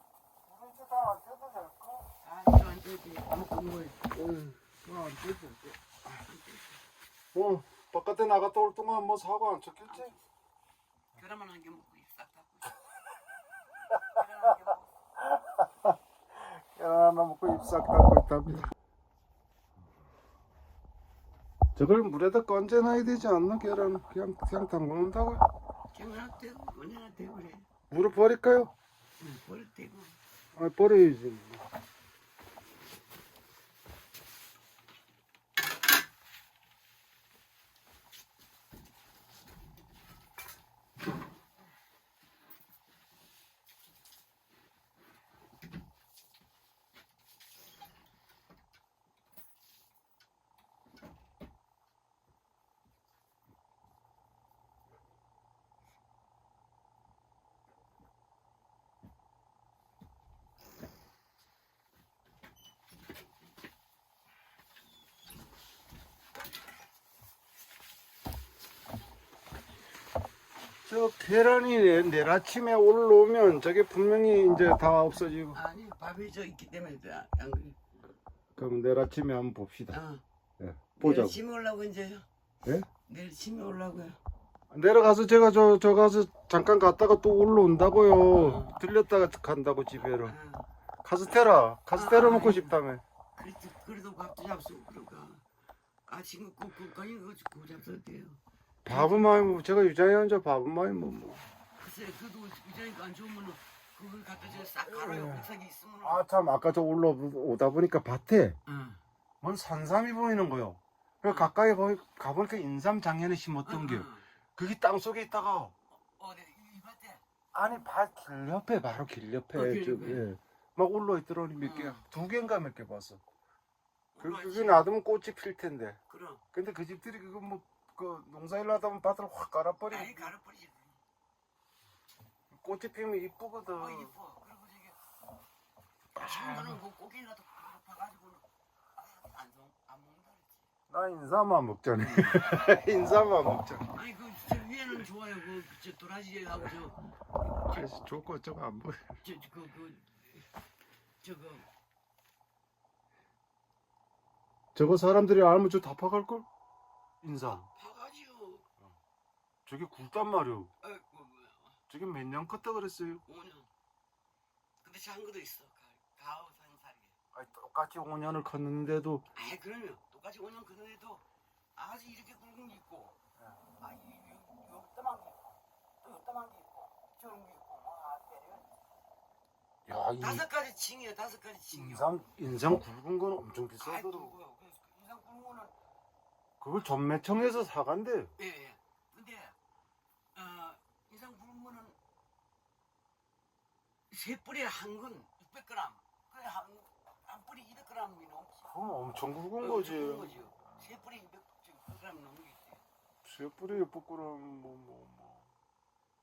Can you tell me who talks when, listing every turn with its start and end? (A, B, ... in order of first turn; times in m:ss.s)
0:00.4-0:02.1 A
0:02.2-0:04.1 B
0:04.1-0:05.8 A
0:06.1-0:06.8 B
0:07.3-0:10.1 A
0:09.9-0:10.2 B
0:11.1-0:12.9 B
0:14.0-0:14.9 B
0:15.2-0:18.7 A
0:21.8-0:25.4 A
0:25.9-0:27.6 B
0:27.9-0:28.7 A
0:29.2-0:30.2 B
0:30.6-0:31.6 A
1:10.9-1:15.6 A
1:15.5-1:17.8 B
1:18.6-1:20.0 A
1:19.9-1:20.2 B
1:20.6-1:21.4 A
1:21.0-1:22.2 B
1:23.0-1:24.2 B
1:24.7-1:30.3 A
1:28.3-1:28.8 B
1:30.1-1:30.7 B
1:31.0-1:33.0 A
1:31.9-1:32.8 B
1:33.4-1:35.4 B
1:36.0-1:39.4 B
1:38.8-1:41.4 A
1:41.8-1:46.2 B
1:44.9-1:45.5 A
1:46.0-1:48.6 A
1:48.7-1:49.0 B
1:49.4-1:55.7 A
1:51.2-1:51.5 B
1:53.6-1:54.2 B
1:55.9-1:57.2 B
1:57.5-2:03.2 A
1:59.5-2:00.2 B
2:01.6-2:02.0 B
2:04.1-2:04.9 B
2:04.2-2:06.0 A
2:06.1-2:06.4 B
2:06.5-2:10.3 A
2:09.9-2:11.0 B
2:12.5-2:14.1 A
2:13.8-2:15.0 B
2:16.1-2:16.8 A
2:16.2-2:20.6 B
2:20.9-2:23.9 A
2:22.0-2:22.6 B
2:23.9-2:27.0 B
2:27.6-2:29.1 A
2:29.2-2:30.5 B
2:31.2-2:31.7 B
2:34.7-2:36.4 A
2:37.2-2:37.7 A
2:37.7-2:38.6 B
2:39.6-2:40.7 A
2:40.8-2:41.8 B
2:41.9-2:43.2 A
2:43.2-2:43.7 B
2:44.8-2:47.1 B
2:47.3-2:49.2 A
2:49.3-2:51.2 B
2:51.7-2:53.2 B
2:53.8-2:58.7 B
2:59.9-3:00.4 A
3:00.2-3:02.1 B
3:01.7-3:04.3 A
3:03.8-3:05.7 B
3:06.6-3:08.3 A
3:08.4-3:09.6 B
3:10.3-3:12.0 B
3:14.1-3:18.7 B
3:18.6-3:20.4 A
3:19.6-3:22.8 B
3:23.2-3:25.5 A